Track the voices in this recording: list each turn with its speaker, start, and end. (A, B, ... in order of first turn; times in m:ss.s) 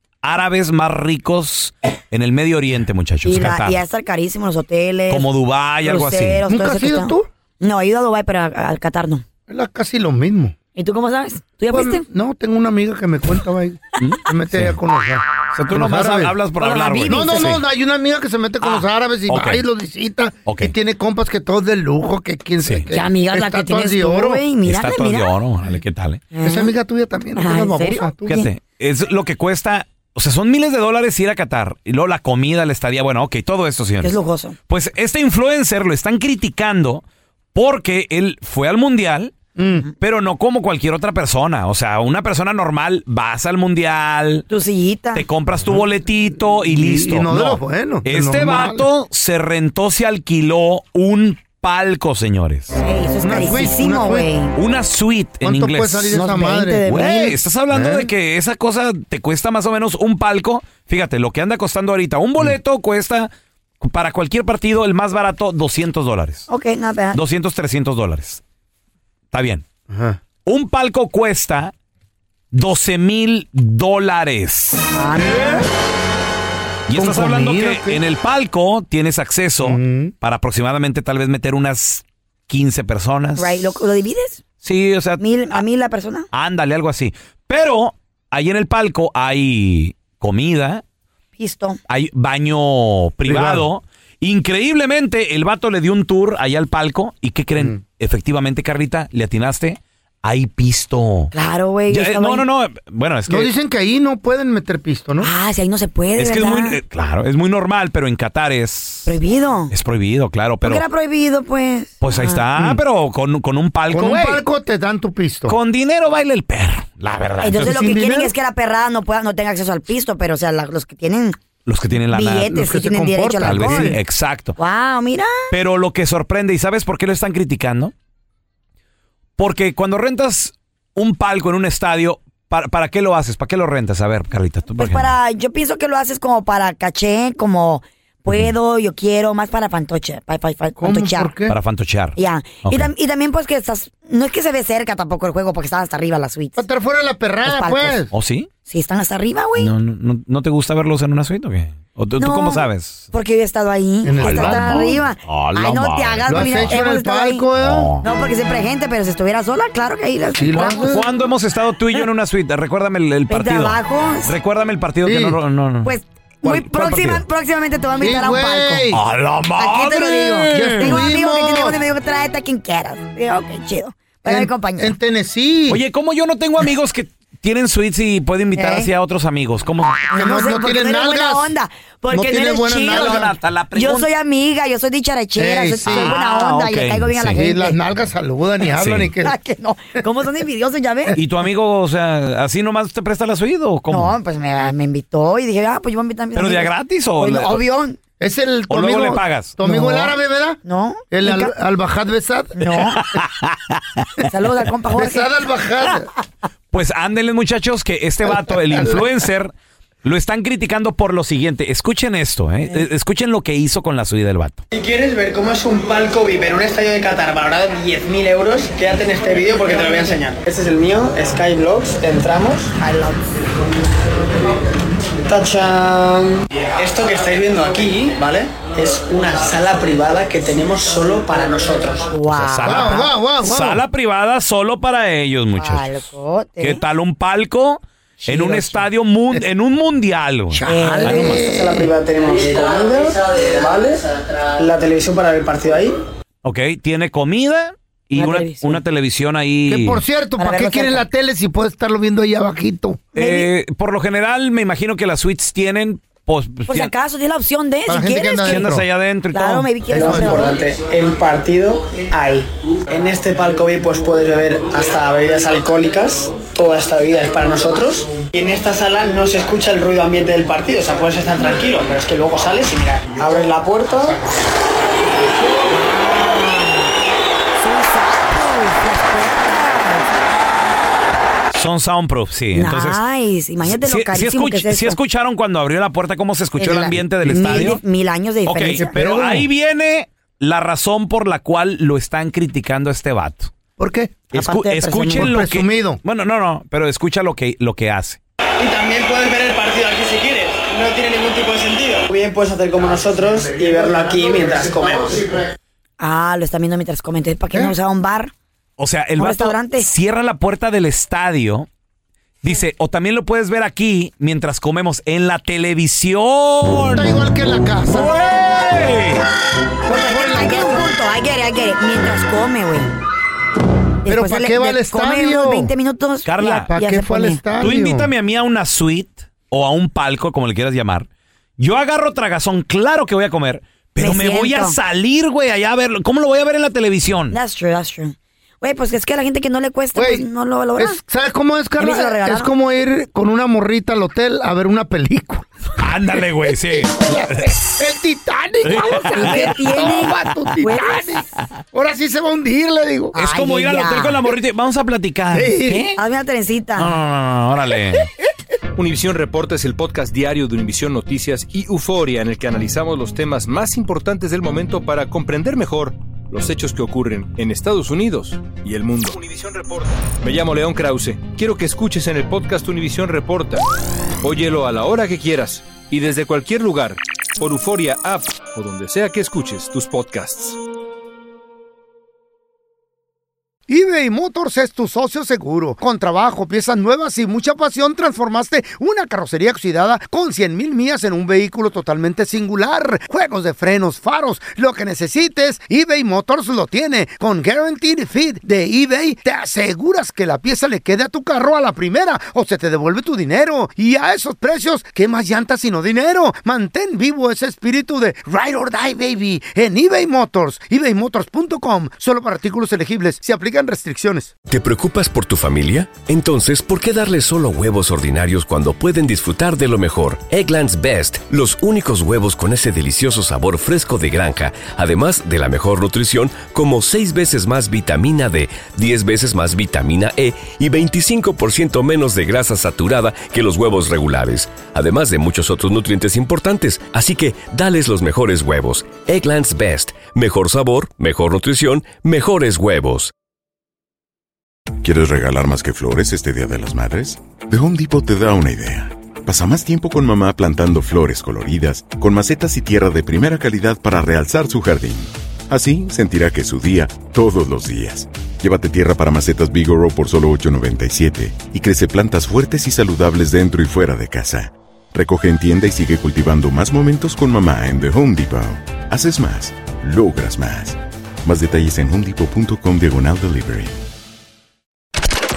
0:00.2-0:03.8 A
0:03.2-0:05.3 B
0:05.1-0:06.4 A
0:05.8-0:09.2 B
0:06.5-0:07.3 C
0:09.5-0:10.6 C
0:10.8-0:12.0 B
0:11.7-0:16.4 C
0:14.0-0:14.8 A
0:15.6-0:17.6 A
0:16.6-0:17.5 B
0:17.1-0:24.4 C
0:18.6-0:19.6 A
0:20.5-0:20.7 A
0:22.9-0:25.3 B
0:24.6-0:26.2 A
0:26.3-0:26.7 B
0:26.4-0:28.4 C
0:27.4-0:28.5 B
0:28.3-0:34.1 A
0:34.0-0:34.6 B
0:34.7-0:39.3 A
0:39.6-0:39.9 C
0:40.0-0:44.4 A
0:44.5-0:45.2 B
0:45.1-0:52.8 A
0:46.6-0:48.9 C
0:52.8-0:54.6 B
0:53.2-0:54.3 C
0:54.6-0:56.2 A
0:55.4-0:58.1 C
0:56.1-0:57.3 B
0:56.9-1:03.3 A
1:03.8-1:06.5 A
1:06.5-1:07.2 B
1:07.1-1:08.4 A
1:09.3-1:09.6 A
1:09.9-1:10.2 C
1:10.4-1:11.7 A
1:12.5-1:14.9 A
1:14.9-1:15.7 B
1:16.9-1:23.6 A
1:16.9-1:18.0 C
1:19.6-1:20.1 C
1:23.4-1:24.4 B
1:24.6-1:25.6 A
1:25.2-1:26.3 B
1:26.3-1:30.8 A
1:31.4-1:31.8 B
1:31.9-1:41.3 A
1:33.3-1:33.7 C
1:41.3-1:42.4 B
1:41.9-1:43.5 A
1:43.3-1:45.3 C
1:45.2-1:46.8 B
1:46.2-1:49.2 A
1:49.1-1:49.7 B
1:49.7-1:50.8 A
1:50.6-1:52.4 B
1:52.0-1:54.4 A
1:53.9-1:55.6 C
1:55.5-1:57.8 A
1:57.4-2:01.4 B
1:57.6-1:58.3 C
2:01.7-2:02.5 A
2:02.1-2:04.0 B
2:02.5-2:04.0 C
2:03.4-2:04.6 A
2:04.6-2:05.4 B
2:05.5-2:07.9 A
2:09.4-2:15.1 A
2:14.8-2:21.3 B
2:20.8-2:21.6 C
2:21.5-2:22.9 A
2:22.2-2:26.6 B
2:26.6-2:28.1 C
2:27.5-2:28.0 B
2:28.1-2:28.5 A
2:28.7-2:29.7 B
2:29.6-2:33.1 A
2:32.2-2:37.4 B
2:34.0-2:35.0 C
2:34.2-2:36.8 A
2:36.3-2:37.9 C
2:37.6-2:38.0 A
2:38.0-2:41.0 B
2:40.4-2:41.1 C
2:40.7-2:45.9 A
2:43.3-2:44.3 B
2:45.0-2:45.4 C
2:45.8-2:48.8 B
2:46.5-2:47.2 A
2:48.0-2:49.0 C
2:48.9-2:51.0 A
2:49.6-2:55.0 B
2:50.5-2:51.8 C
2:54.2-2:55.8 C
2:55.7-3:00.1 A
2:58.6-2:58.9 B
3:00.1-3:03.2 B
3:00.2-3:01.5 C
3:02.1-3:03.3 C
3:02.7-3:04.1 A
3:03.8-3:07.8 B
3:05.4-3:06.1 C
3:05.9-3:07.4 A
3:07.3-3:09.4 C
3:08.8-3:09.1 A
3:09.2-3:11.2 B
3:11.2-3:14.2 A
3:13.9-3:18.0 B
3:16.4-3:17.6 A
3:18.2-3:20.6 C
3:18.7-3:19.6 A
3:19.7-3:20.0 B
3:20.6-3:21.5 B
3:21.1-3:23.2 C
3:22.6-3:23.0 B
3:23.0-3:24.1 A
3:24.2-3:25.3 B
3:25.0-3:26.1 C
3:26.7-3:29.5 A
3:28.3-3:29.1 C
3:30.0-3:34.6 A
3:34.7-3:42.7 D
3:42.8-3:43.2 B
3:45.2-3:52.1 D
3:52.1-3:53.1 B
3:52.3-3:56.0 A
3:52.6-3:53.8 C
3:55.6-3:56.8 B
3:56.6-4:01.4 A
3:58.3-3:58.8 B
4:00.5-4:01.9 C
4:00.7-4:01.4 B
4:01.4-4:05.9 D
4:06.4-4:10.0 A
4:08.2-4:08.8 B
4:09.7-4:13.0 C
4:10.4-4:11.0 B
4:13.2-4:16.9 A
4:13.2-4:13.5 B
4:16.7-4:18.7 B
4:17.9-4:18.8 C
4:18.5-4:19.7 A
4:19.3-4:20.6 B
4:19.9-4:20.5 C
4:19.9-4:34.2 D
4:35.7-4:36.9 B
4:37.6-4:40.1 B
4:41.5-4:43.0 A
4:42.6-4:45.0 B
4:43.6-4:47.8 A
4:46.6-4:48.9 B
4:47.2-4:47.8 C
4:48.5-4:53.5 A
4:48.8-4:49.5 C
4:53.8-4:54.2 C
4:54.3-4:55.3 B
4:54.3-4:58.2 A
4:55.1-4:56.0 C
4:58.6-5:05.4 D
5:06.0-5:08.3 B
5:08.8-5:11.7 A
5:09.2-5:09.9 B
5:12.4-5:17.2 A
5:16.9-5:18.1 C
5:17.9-5:19.2 A
5:19.9-5:20.9 C
5:19.9-5:22.9 B
5:24.0-5:27.4 B
5:24.1-5:25.7 C
5:26.3-5:26.7 A
5:26.7-5:28.1 C
5:27.6-5:31.1 A
5:31.6-5:37.4 A
5:34.0-5:34.8 B
5:37.3-5:41.0 B
5:40.0-5:40.3 C
5:40.8-5:45.5 C
5:41.8-5:42.5 B
5:45.8-5:47.5 A
5:46.7-5:53.2 C
5:48.6-5:49.5 A
5:49.2-5:51.2 B
5:53.2-5:54.2 B
5:53.2-5:55.9 A
5:55.3-5:56.0 C
5:56.0-5:56.9 B
5:56.8-5:58.1 A
5:58.8-6:13.6 E
6:14.2-6:20.6 E
6:23.7-6:54.3 C
6:54.5-7:23.1 F
7:24.8-7:53.7 G